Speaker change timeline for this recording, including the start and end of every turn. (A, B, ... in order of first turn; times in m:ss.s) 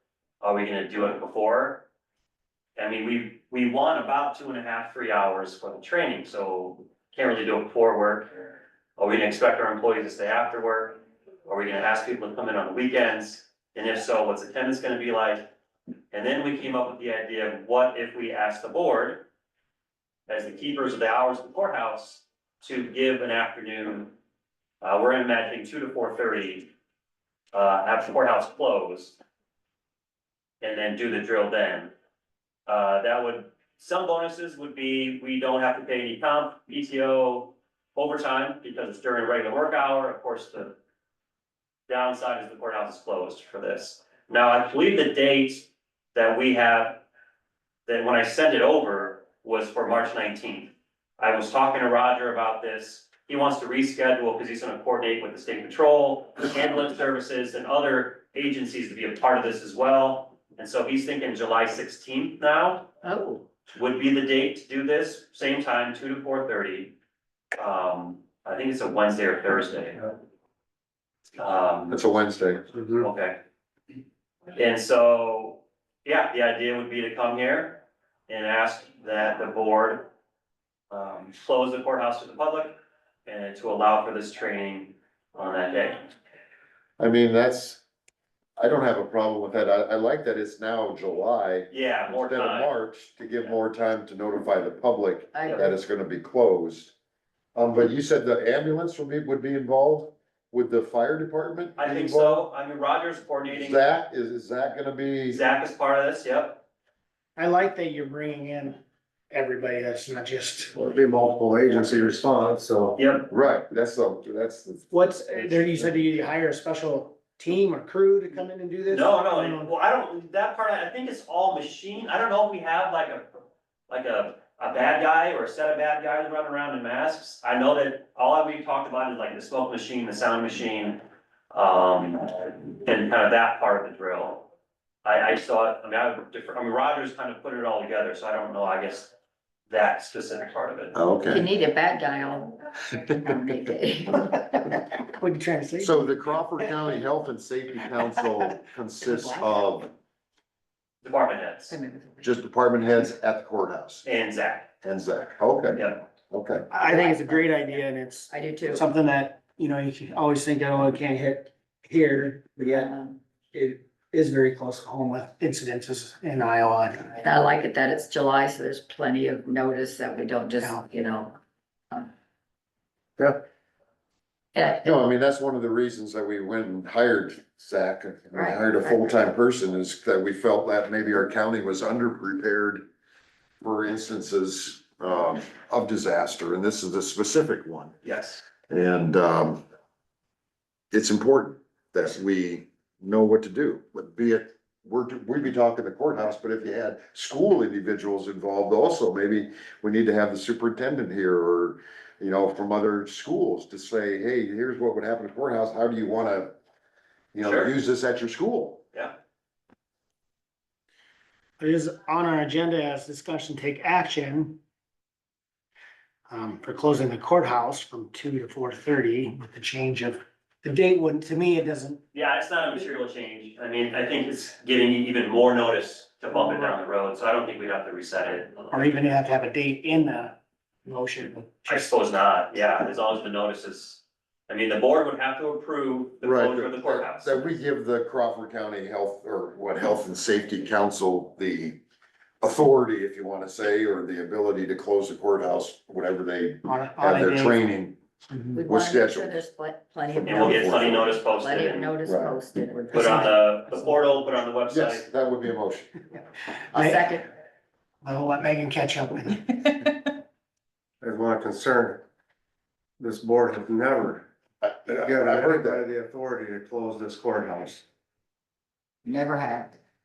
0:00.4-0:01.8 A
0:02.8-0:08.4 A
0:09.0-0:15.5 A
0:16.1-0:19.3 A
0:20.3-0:24.1 A
0:24.8-0:26.7 A
0:27.5-0:29.2 A
0:30.6-0:31.9 A
0:32.7-0:40.8 A
0:41.9-0:47.0 A
0:47.8-1:02.9 A
1:03.0-1:03.4 B
1:03.7-1:06.9 A
1:07.6-1:10.1 A
1:11.4-1:12.0 A
1:11.9-1:12.7 C
1:13.0-1:13.4 A
1:14.5-1:20.0 A
1:20.9-1:22.7 A
1:23.2-1:26.1 A
1:27.0-1:27.8 C
1:28.6-1:36.9 C
1:31.7-1:32.7 A
1:35.3-1:35.8 B
1:37.5-1:42.4 C
1:41.8-1:43.8 A
1:43.6-1:45.4 C
1:45.3-1:46.6 A
1:47.4-1:48.8 D
1:49.3-1:50.7 D
1:50.7-1:53.0 E
1:53.0-1:53.3 A
1:53.3-1:56.0 C
1:54.9-1:59.7 D
1:58.9-2:03.4 A
2:03.9-2:11.0 A
2:11.5-2:14.4 A
2:15.0-2:19.1 A
2:19.7-2:21.0 A
2:20.9-2:21.4 C
2:21.3-2:24.9 B
2:25.1-2:26.6 D
2:25.8-2:29.9 C
2:31.0-2:31.8 A
2:31.7-2:32.4 B
2:32.2-2:34.0 C
2:34.0-2:34.7 A
2:34.8-2:36.7 C
2:36.7-2:42.9 D
2:36.8-2:37.6 B
2:38.3-2:38.9 B
2:42.7-2:43.2 B
2:43.5-2:47.2 D
2:47.1-2:51.4 B
2:54.5-2:55.0 B
2:54.8-3:02.8 C
2:58.3-2:59.3 B
3:03.6-3:08.0 C
3:08.0-3:08.4 A
3:08.7-3:09.6 C
3:10.9-3:26.5 C
3:27.3-3:28.8 C
3:27.4-3:27.7 A
3:31.6-3:34.6 D
3:36.3-3:42.0 D
3:42.1-3:48.8 A
3:46.3-3:46.7 D
3:48.7-3:51.9 D
3:51.6-3:57.5 A
3:56.2-4:01.8 C
4:02.4-4:08.0 C
4:06.6-4:07.6 D
4:08.3-4:08.6 D
4:08.5-4:13.4 B
4:08.6-4:09.4 C
4:10.1-4:11.1 C
4:10.2-4:11.9 A
4:12.0-4:12.4 C
4:12.9-4:15.1 A
4:14.7-4:16.0 C
4:16.7-4:17.2 D
4:16.7-4:17.2 B
4:18.0-4:20.0 D
4:21.0-4:22.0 E
4:23.0-4:24.2 E
4:24.6-4:25.8 C
4:24.9-4:27.8 E
4:29.0-4:29.8 B